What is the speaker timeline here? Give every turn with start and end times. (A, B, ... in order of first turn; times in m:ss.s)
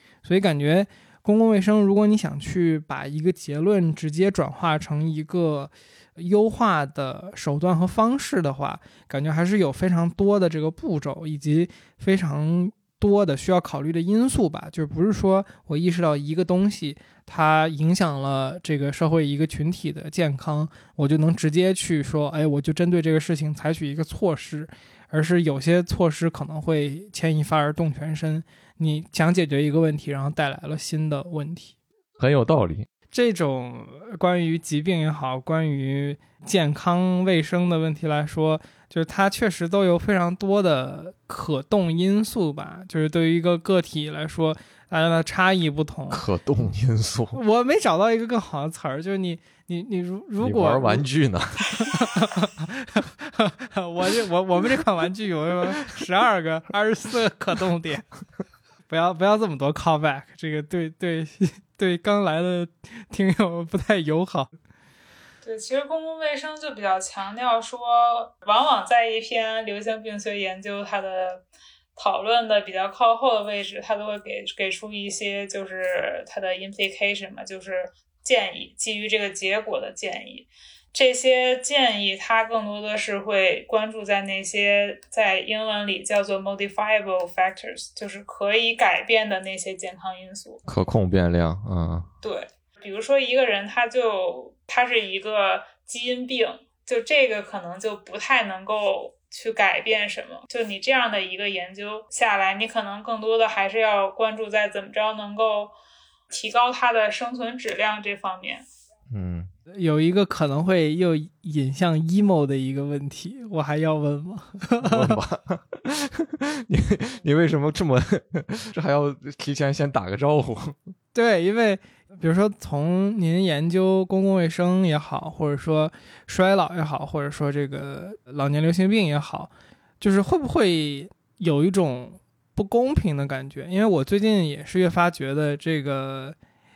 0:00.2-0:31.7 A
0:32.2-0:32.9 B
0:33.1-0:46.2 A
0:46.1-0:47.4 B
0:47.3-0:51.0 A
0:50.4-0:51.9 B
0:51.8-0:58.1 A
0:58.9-1:04.5 A
1:05.4-1:11.4 C
1:12.0-1:30.6 C
1:30.7-1:32.1 B
1:32.2-1:45.7 C
1:46.3-1:48.6 C
1:49.1-1:49.5 B
1:49.7-1:55.2 A
1:54.8-2:00.8 B
2:01.1-2:16.4 A